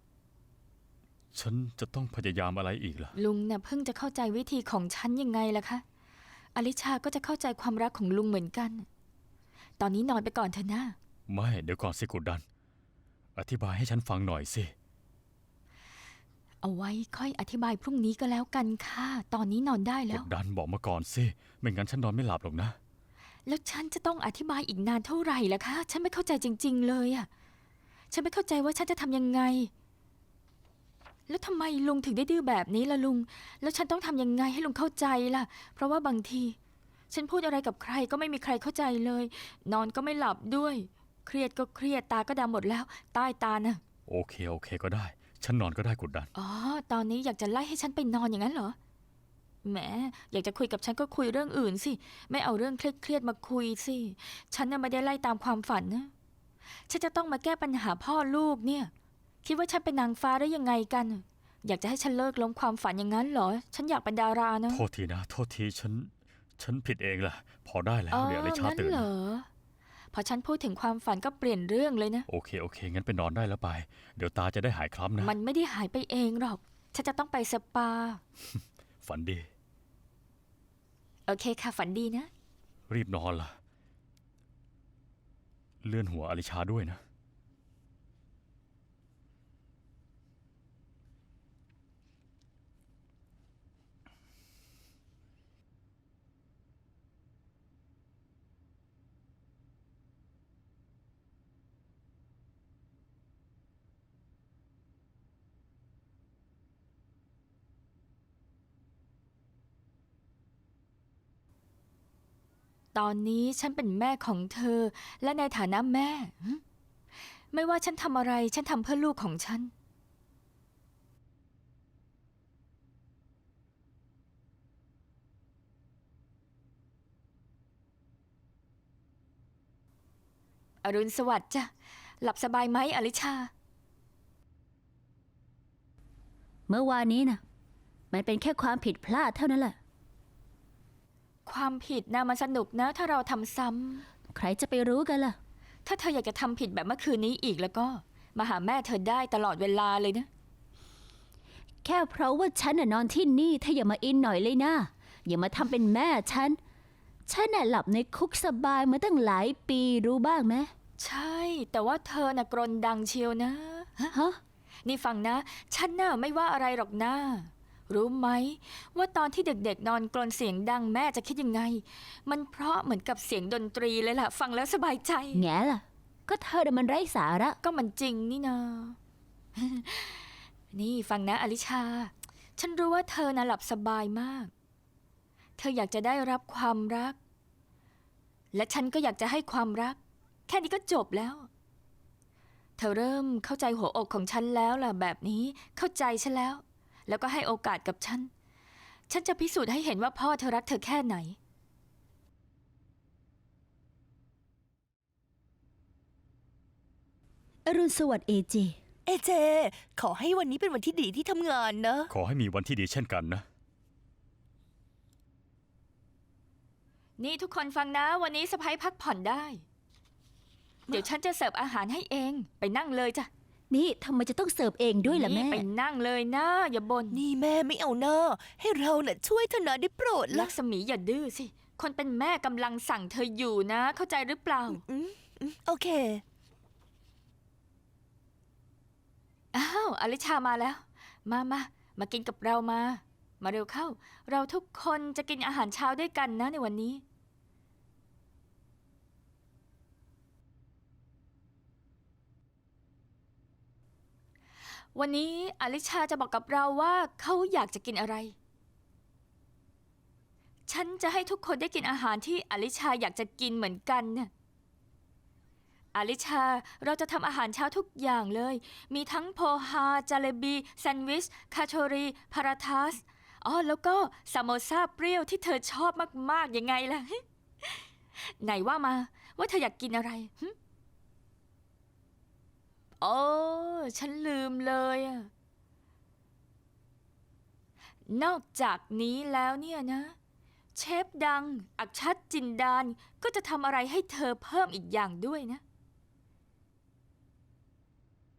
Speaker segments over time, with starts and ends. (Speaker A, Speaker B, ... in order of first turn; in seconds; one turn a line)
Speaker A: 1.3-3.1
Speaker B: 3.1-5.8
Speaker B: 6.5-8.8
Speaker B: 9.8-10.9
Speaker A: 11.3-12.4
Speaker A: 13.3-14.7
Speaker B: 16.6-20.3
Speaker A: 20.1-22.8
Speaker B: 23.4-27.3
Speaker B: 28.1-29.7
Speaker B: 31.3-36.5
Speaker B: 37.1-43.8
Speaker A: 44.1-46.3
Speaker B: 46.3-48.8
Speaker B: 49.6-56.1
Speaker B: 56.9-58.9
Speaker B: 59.4-64.8
Speaker A: 64.7-69.1
Speaker B: 68.1-69.5
Speaker B: 70.1-72.3
Speaker A: 72.3-75.3
Speaker B: 75.2-78.2
Speaker A: 79.0-79.5
Speaker B: 81.3-82.3
Speaker A: 82.9-83.5
Speaker A: 85.8-87.0
Speaker B: 112.9-116.6
Speaker B: 117.5-119.7
Speaker B: 130.8-133.5
Speaker C: 136.7-137.4
Speaker C: 138.1-139.8
Speaker B: 141.4-144.0
Speaker C: 144.3-145.4
Speaker B: 145.8-150.3
Speaker C: 151.8-156.6
Speaker C: 157.2-160.7
Speaker B: 161.0-164.1
Speaker C: 164.1-164.4
Speaker B: 164.8-175.4
Speaker C: 175.3-177.6
Speaker B: 177.6-179.0
Speaker B: 179.6-184.5
Speaker B: 185.6-187.2
Speaker B: 188.5-191.5
Speaker B: 192.8-198.3
Speaker B: 199.1-201.4
Speaker C: 207.7-208.8
Speaker D: 209.1-212.1
Speaker A: 212.1-213.4
Speaker B: 217.2-219.6
Speaker B: 220.9-223.3
Speaker C: 223.7-225.6
Speaker B: 225.0-227.2
Speaker D: 227.1-230.5
Speaker B: 230.3-234.8
Speaker D: 234.7-236.2
Speaker B: 239.5-247.0
Speaker B: 254.9-258.3
Speaker B: 260.7-264.3
Speaker B: 265.9-280.5
Speaker B: 283.0-285.3
Speaker B: 288.1-290.1
Speaker B: 290.8-295.6